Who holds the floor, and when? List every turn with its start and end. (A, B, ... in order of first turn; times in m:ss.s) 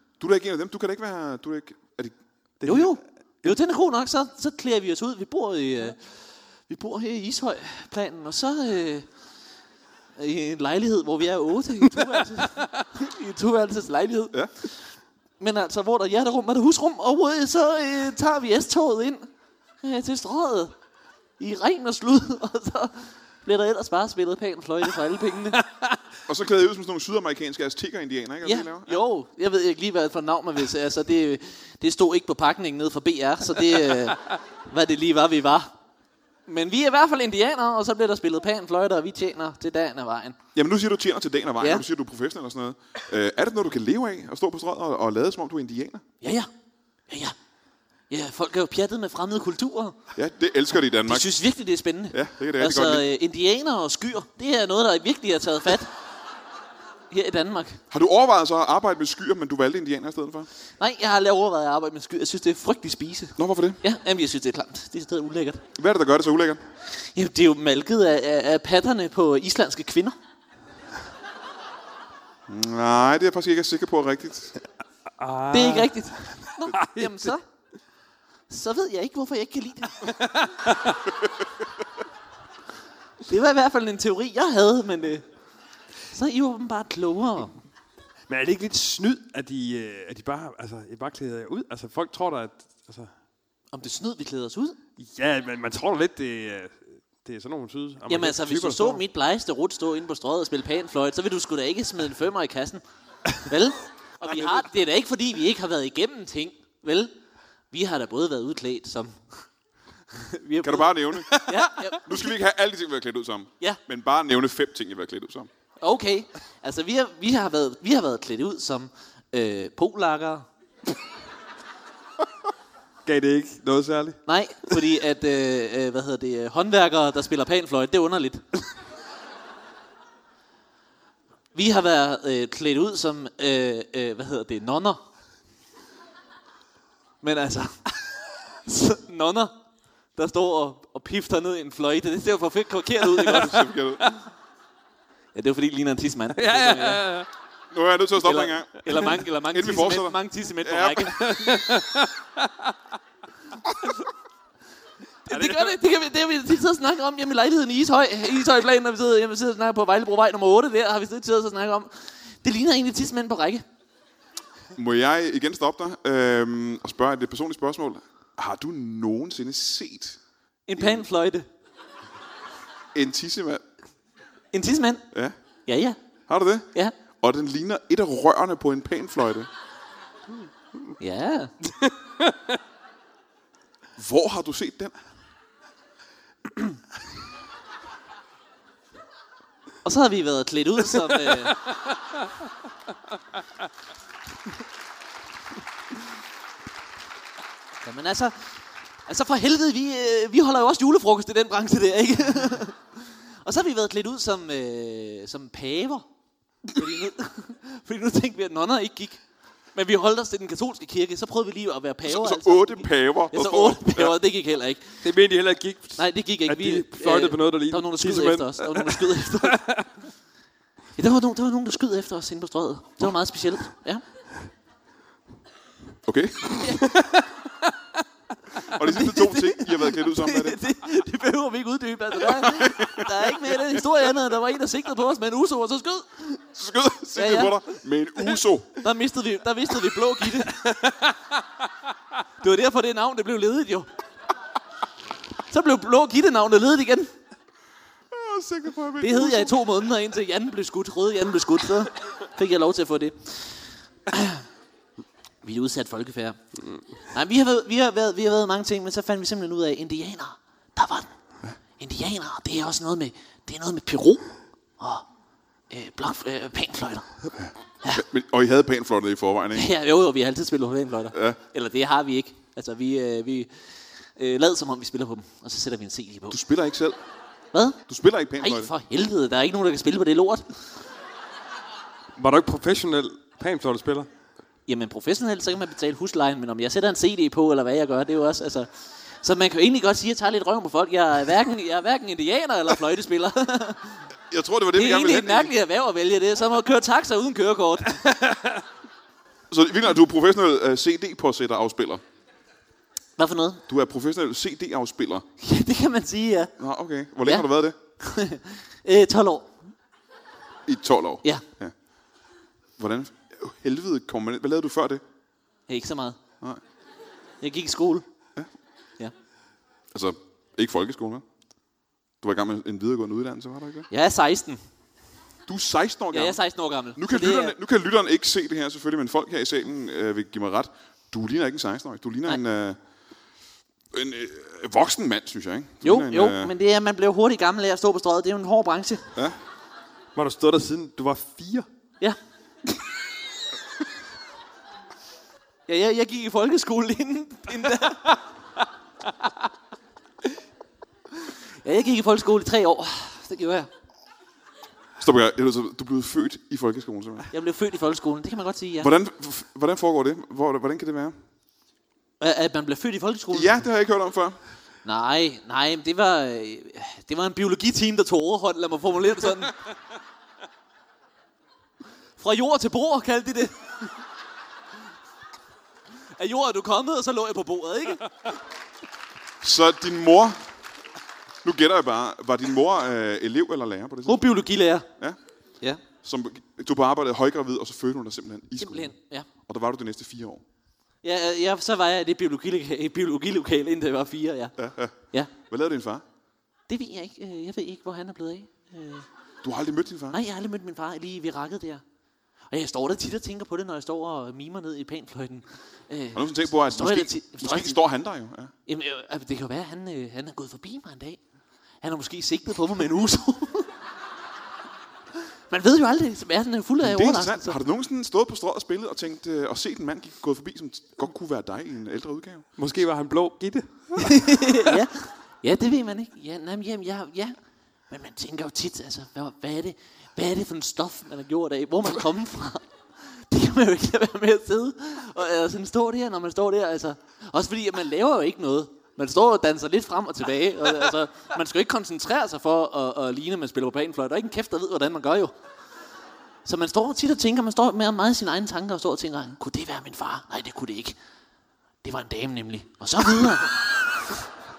0:00.2-0:02.2 A
0:02.6-0:03.6 B
0:02.6-0:09.1 C
0:10.2-0:19.3 C
0:19.8-0:20.7 C
0:21.4-0:25.6 C
0:26.3-0:29.0 A
0:28.4-0:35.7 C
0:36.5-0:40.4 C
0:40.6-0:46.0 A
0:46.2-0:46.5 C
0:47.1-0:47.4 C
0:48.1-0:50.0 C
0:50.2-0:51.3 A
0:51.0-0:55.9 C
0:52.1-0:53.1 A
0:57.1-0:57.8 C
0:57.9-1:00.5 A
1:00.8-1:05.6 C
1:03.4-1:03.8 A
1:05.8-1:06.6 A
1:06.9-1:10.2 C
1:12.5-1:14.6 A
1:15.2-1:17.3 B
1:15.5-1:17.4 C
1:18.5-1:20.1 C
1:20.0-1:21.1 B
1:23.2-1:25.2 C
1:26.1-1:27.6 C
1:28.3-1:33.1 B
1:33.7-1:34.8 C
1:35.0-1:39.0 B
1:38.1-1:42.8 C
1:43.4-1:47.1 C
1:44.3-1:44.6 A
1:47.7-1:49.5 C
1:50.1-1:52.4 C
1:50.6-1:55.5 A
1:55.8-2:00.5 C
2:03.1-2:04.2 B
2:04.3-2:08.4 C
2:11.5-2:15.0 C
2:17.2-2:19.6 C
2:20.2-2:23.7 C
2:23.2-2:24.2 B
2:23.3-2:24.1 A
2:25.3-2:27.0 C
2:26.4-2:27.3 B
2:27.7-2:31.3 A
2:28.2-2:31.6 C
2:31.2-2:32.8 B
2:35.3-2:43.6 C
2:35.3-2:35.8 B
2:44.8-2:50.2 A
2:50.7-2:51.5 C
2:50.8-2:51.0 A
2:53.0-2:53.6 A
2:54.5-2:55.1 C
2:55.7-2:56.0 C
2:56.3-2:59.5 A
3:01.0-3:01.5 C
3:01.7-3:02.6 B
3:04.0-3:05.0 A
3:09.8-3:11.6 C
3:11.2-3:12.3 B
3:17.8-3:26.1 C
3:26.7-3:29.2 C
3:29.8-3:35.1 C
3:32.1-3:34.2 A
3:35.0-3:39.9 B
3:36.0-3:39.6 C
3:41.0-3:44.0 C
3:46.1-3:46.8 A
3:46.6-3:47.1 C
3:48.6-3:50.6 A
3:48.8-3:56.4 C
3:52.2-3:53.6 A
3:56.6-3:58.8 A
3:57.2-3:57.6 C
3:58.3-4:00.8 C
4:00.6-4:01.1 B
4:02.4-4:03.9 C
4:05.5-4:07.1 C
4:08.1-4:09.6 A
4:09.0-4:14.4 C
4:15.4-4:16.4 C
4:17.0-4:21.1 C
4:21.8-4:24.2 C
4:24.8-4:25.0 C
4:25.7-4:27.1 C
4:27.4-4:29.7 A
4:29.5-4:36.4 C
4:31.1-4:31.4 A
4:36.3-4:37.0 A
4:37.5-4:37.8 C
4:37.9-4:38.7 A
4:38.4-4:40.7 C
4:42.2-4:44.1 B
4:44.7-4:54.1 C
4:54.3-4:55.5 A
4:54.7-4:58.0 C
4:58.1-4:58.6 B
4:59.5-5:02.0 A
5:03.2-5:03.6 C
5:03.7-5:05.3 A
5:05.4-5:06.5 C
5:06.6-5:07.8 A
5:08.0-5:09.6 C
5:10.7-5:11.7 A
5:12.8-5:15.0 A
5:15.7-5:16.2 C
5:17.4-5:18.0 C
5:19.9-5:21.3 A
5:22.2-5:23.9 A
5:23.9-5:24.6 C
5:25.5-5:26.4 A
5:26.1-5:27.6 C
5:27.0-5:32.8 A
5:33.9-5:36.5 A
5:35.8-5:39.1 C
5:40.2-5:41.7 B
5:45.7-5:48.2 C
5:51.2-5:53.7 C
5:55.0-5:57.3 A
5:57.3-5:58.9 C
5:58.8-6:01.2 A
6:02.2-6:03.6 C
6:03.3-6:04.4 A
6:04.8-6:09.6 C
6:12.2-6:14.0 C
6:16.1-6:18.1 C
6:19.4-6:20.4 A
6:21.4-6:24.2 A
6:24.1-6:24.9 C
6:26.0-6:28.9 A
6:28.6-6:29.3 C
6:29.5-6:30.4 A
6:31.0-6:34.6 C
6:34.6-6:36.0 A
6:36.7-6:39.1 C
6:39.4-6:40.2 A
6:40.1-6:41.8 C
6:42.5-6:47.8 C
6:46.2-6:48.5 A
6:48.7-6:51.2 C
6:51.8-6:53.7 C
6:55.3-6:57.6 C
6:56.8-7:02.5 A
7:02.6-7:04.8 B
7:04.0-7:07.4 C
7:07.9-7:25.3 C
7:26.4-7:31.0 C
7:31.8-7:34.2 C